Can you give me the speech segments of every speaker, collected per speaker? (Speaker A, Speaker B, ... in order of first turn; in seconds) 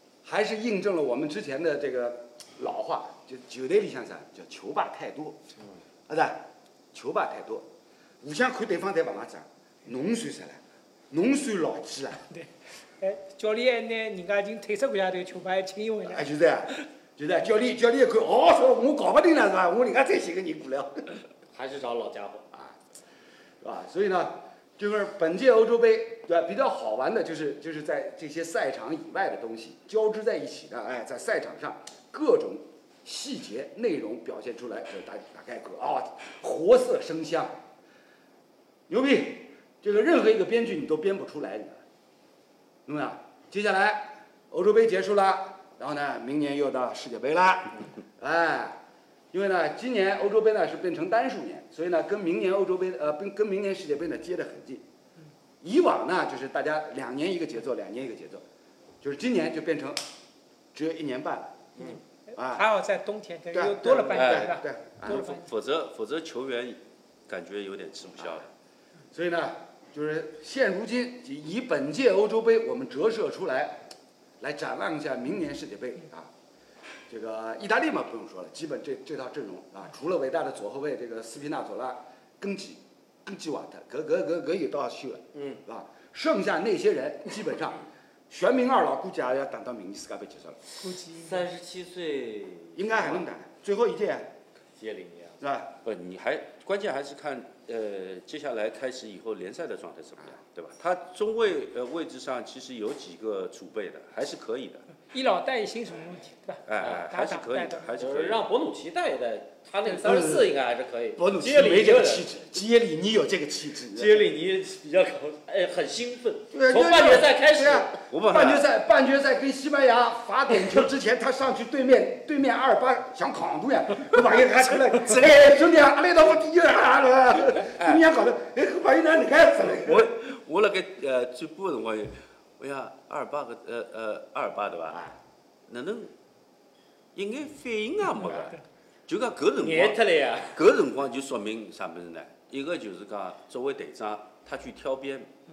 Speaker A: 0.2-5.4, 6.1-7.7, 8.2-10.6, 11.1-12.2, 16.1-21.2, 23.6-37.5, 38.9-41.8, 42.9-48.8, 49.3-54.8, 55.6-58.4, 59.0-60.0, 60.7-61.7, 62.4-62.6, 63.5-65.2, 69.1-76.3, 77.1-90.6, 92.7-94.3, 95.4-95.7, 110.0-110.5, 111.2-114.3, 116.5-130.1
Speaker B: 12.2-16.2, 62.3-65.5, 90.8-91.5, 105.1-107.9, 138.3-138.6
Speaker C: 21.5-22.4, 91.2-93.2, 94.8-95.4, 108.0-112.2, 113.9-118.0, 139.6-140.6
Speaker D: 64.2-68.5, 95.8-104.8, 106.7-108.4, 118.1-118.7, 124.9-125.4, 127.7-128.0, 129.8-135.0, 135.7-136.1, 137.1-138.6, 139.1-145.3